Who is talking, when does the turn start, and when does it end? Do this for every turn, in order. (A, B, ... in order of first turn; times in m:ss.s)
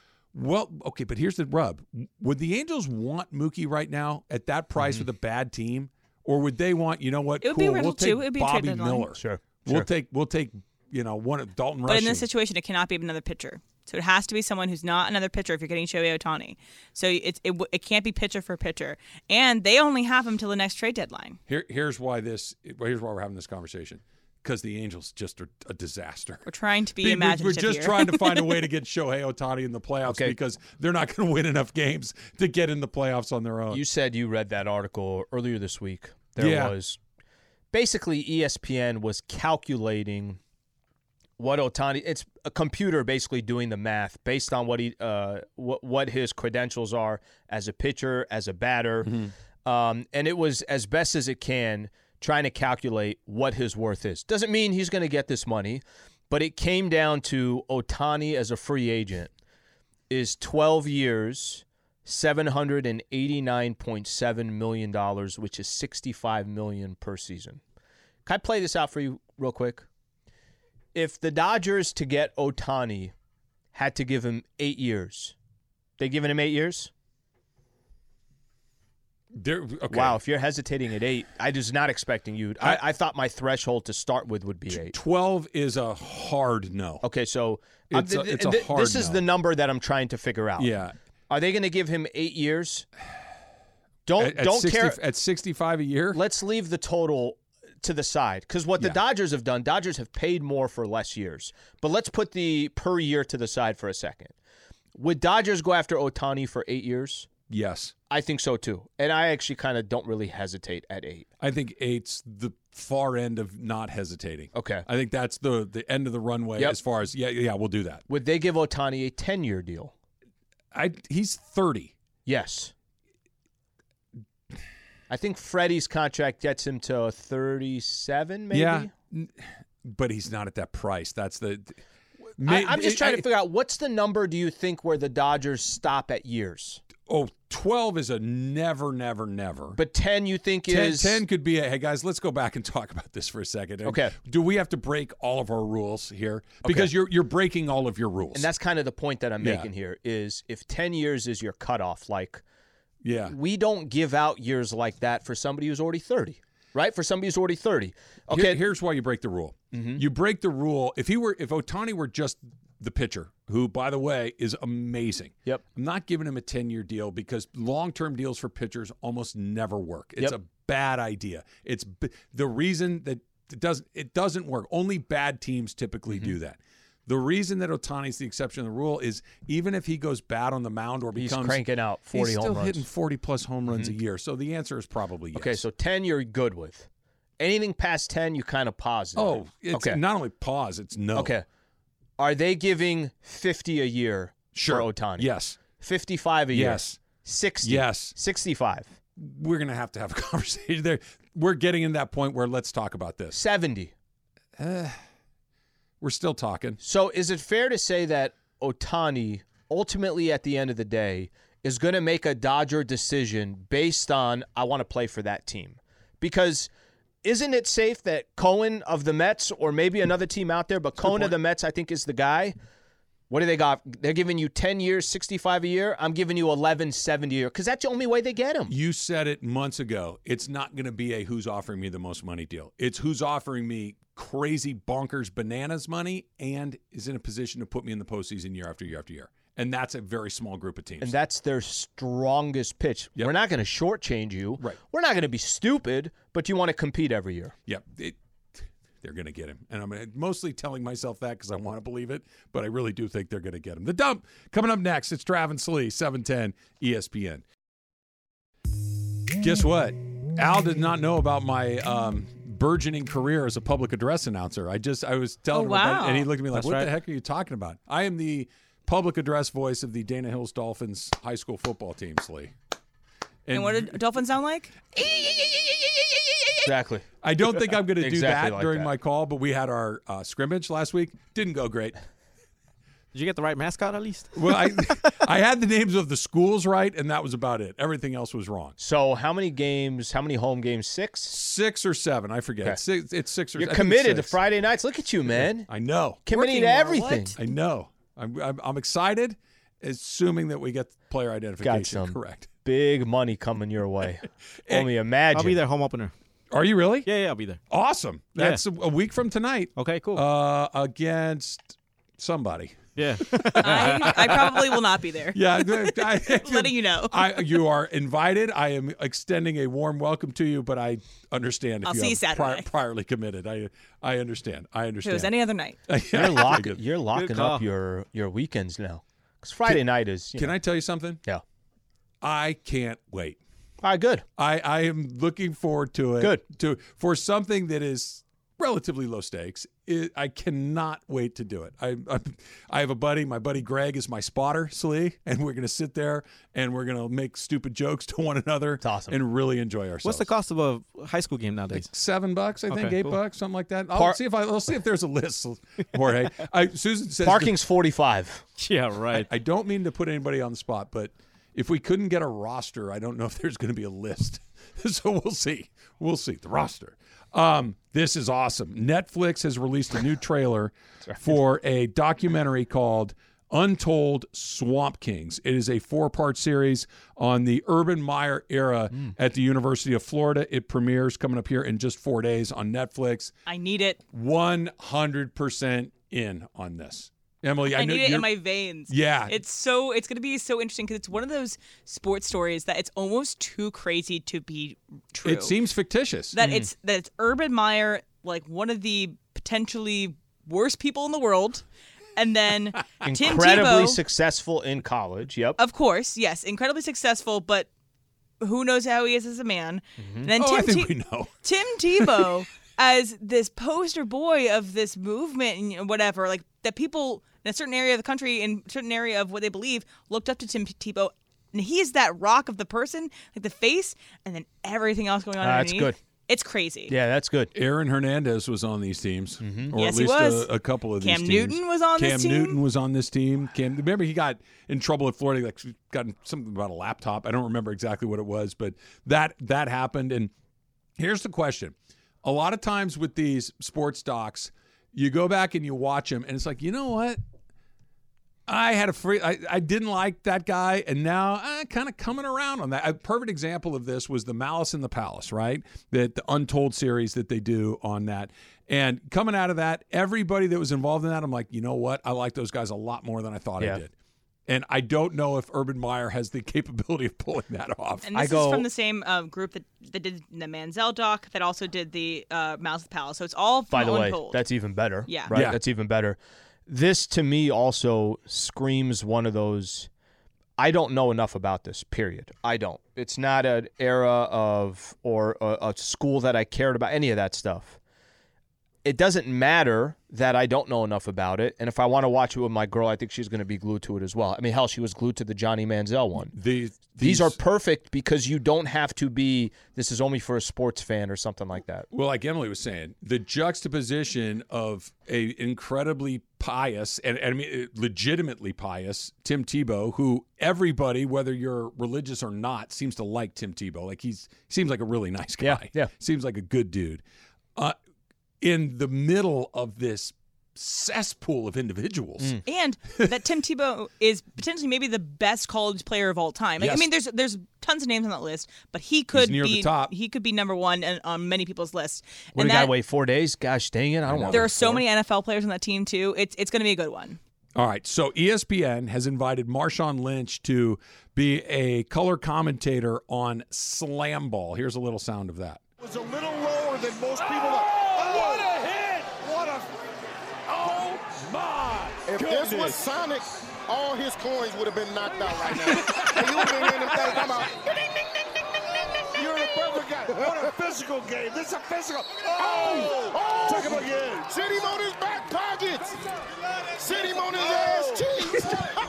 0:00.3-0:12.3 A
0:04.8-0:05.0 B
0:07.4-0:09.1 C
0:09.1-0:09.9 B
0:11.9-0:21.4 C
0:21.5-0:26.5 A
0:26.4-0:28.6 C
0:27.0-0:33.8 A
0:30.0-0:30.3 B
0:33.7-0:37.0 B
0:36.4-0:36.7 A
0:37.7-0:40.4 B
0:41.4-0:59.3 B
0:49.0-0:49.3 A
1:00.1-1:07.6 B
1:08.2-1:09.8 B
1:10.9-1:13.1 B
1:13.7-1:15.4 B
1:16.0-1:16.9 B
1:19.3-1:20.2 A
1:19.9-1:25.0 B
1:24.7-1:27.0 A
1:27.0-1:30.8 B
1:27.9-1:29.2 A
1:30.6-1:30.9 A
1:31.3-1:32.9 B
1:34.0-1:35.0 B
1:34.2-1:36.2 A
1:36.1-1:44.3 B
1:44.9-1:47.3 B
1:47.5-1:47.9 A
1:48.1-1:51.3 B
1:51.4-1:58.0 A
1:54.5-1:54.8 B
1:58.1-1:59.9 B
2:00.7-2:01.9 A
2:02.2-2:02.7 B
2:05.1-2:08.9 B
2:08.5-2:09.3 A
2:09.8-2:11.8 A
2:12.4-2:13.2 A
2:12.4-2:16.8 B
2:17.1-2:19.8 A
2:19.8-2:21.2 B
2:20.7-2:28.4 A
2:23.8-2:24.1 B
2:26.6-2:26.9 B
2:28.3-2:32.4 B
2:29.4-2:29.7 A
2:33.0-2:33.3 A
2:33.2-2:38.6 B
2:38.3-3:01.6 A
2:39.7-2:40.0 B
2:56.1-2:56.3 B
3:01.1-3:02.8 B
3:02.1-3:05.6 A
3:03.7-3:03.9 B
3:05.3-3:06.9 B
3:07.4-3:10.0 B
3:09.2-3:11.3 A
3:11.1-3:11.4 B
3:12.2-3:18.9 B
3:14.5-3:15.6 A
3:16.5-3:17.0 A
3:17.6-3:18.1 A
3:19.2-3:23.4 A
3:23.3-3:23.9 B
3:24.6-3:25.0 A
3:26.0-3:26.8 A
3:26.8-3:36.7 B
3:37.2-3:42.6 B
3:41.0-3:41.3 A
3:43.3-3:48.7 B
3:48.7-4:01.1 A
4:01.0-4:07.5 B
4:07.7-4:08.2 A
4:09.0-4:17.4 A
4:19.4-4:32.5 A
4:25.5-4:26.3 C
4:26.5-4:26.9 D
4:33.5-4:33.9 A
4:33.5-4:34.9 C
4:36.6-4:37.1 B
4:37.2-4:42.0 A
4:37.9-4:38.9 B
4:43.1-4:44.9 D
4:44.3-4:48.8 A
4:48.8-4:51.3 B
4:51.3-4:54.4 A
4:53.5-4:55.7 B
4:55.4-5:02.5 A
4:56.2-4:57.4 B
4:56.7-4:57.3 C
5:01.6-5:05.6 B
5:05.3-5:06.1 D
5:06.5-5:07.1 A
5:07.0-5:07.6 D
5:07.7-5:12.8 A
5:08.4-5:08.6 D
5:09.8-5:10.2 D
5:13.0-5:14.5 D
5:13.3-5:14.6 A
5:13.6-5:17.6 C
5:15.3-5:25.3 A
5:21.8-5:22.7 C
5:25.0-5:25.8 C
5:25.9-5:26.8 A
5:26.1-5:30.6 B
5:27.1-5:27.6 D
5:30.3-5:31.2 A
5:32.2-5:33.4 A
5:33.8-5:34.2 B
5:34.4-5:50.3 A
5:48.8-5:49.2 B
5:50.0-5:51.9 D
5:51.7-5:57.6 A
5:52.7-5:53.2 D
5:53.9-5:54.2 B
5:57.2-5:58.4 B
5:58.6-5:59.3 D
5:59.3-6:23.3 A
6:23.5-6:24.0 C
6:24.1-6:28.3 A
6:27.7-6:35.6 C
6:28.9-6:29.3 A
6:35.2-6:36.4 A
6:36.3-6:41.6 C
6:36.4-6:36.7 B
6:42.2-6:44.0 C
6:43.0-6:45.6 B
6:45.6-6:47.7 C
6:48.4-7:06.9 C
6:50.0-6:50.3 B
6:50.4-6:51.3 A
6:52.0-6:52.3 A
7:05.4-7:06.0 B
7:06.9-7:07.5 B
7:07.5-7:20.3 A
7:09.4-7:09.7 B
7:09.7-7:12.6 C
7:21.0-7:27.2 A
7:28.5-7:43.9 A
7:44.5-7:48.1 A
7:48.1-7:54.4 C
7:48.1-7:48.7 B
7:53.7-7:59.9 B
7:55.1-7:55.3 C
7:55.3-7:55.6 A
8:00.6-8:07.8 B
8:08.8-8:16.3 B
8:16.3-8:17.4 A
8:17.0-8:21.9 B
8:21.9-8:37.0 A
8:35.4-8:35.9 B
8:38.4-8:42.3 A
8:42.4-8:52.7 C
8:49.1-8:49.9 A
8:52.3-8:54.8 B
8:54.1-8:54.4 A
8:54.3-8:57.2 C
8:57.6-9:05.6 A
9:05.8-9:09.6 E
9:10.5-9:11.2 E
9:12.0-9:17.6 E
9:19.1-9:26.0 E
9:26.8-9:28.8 E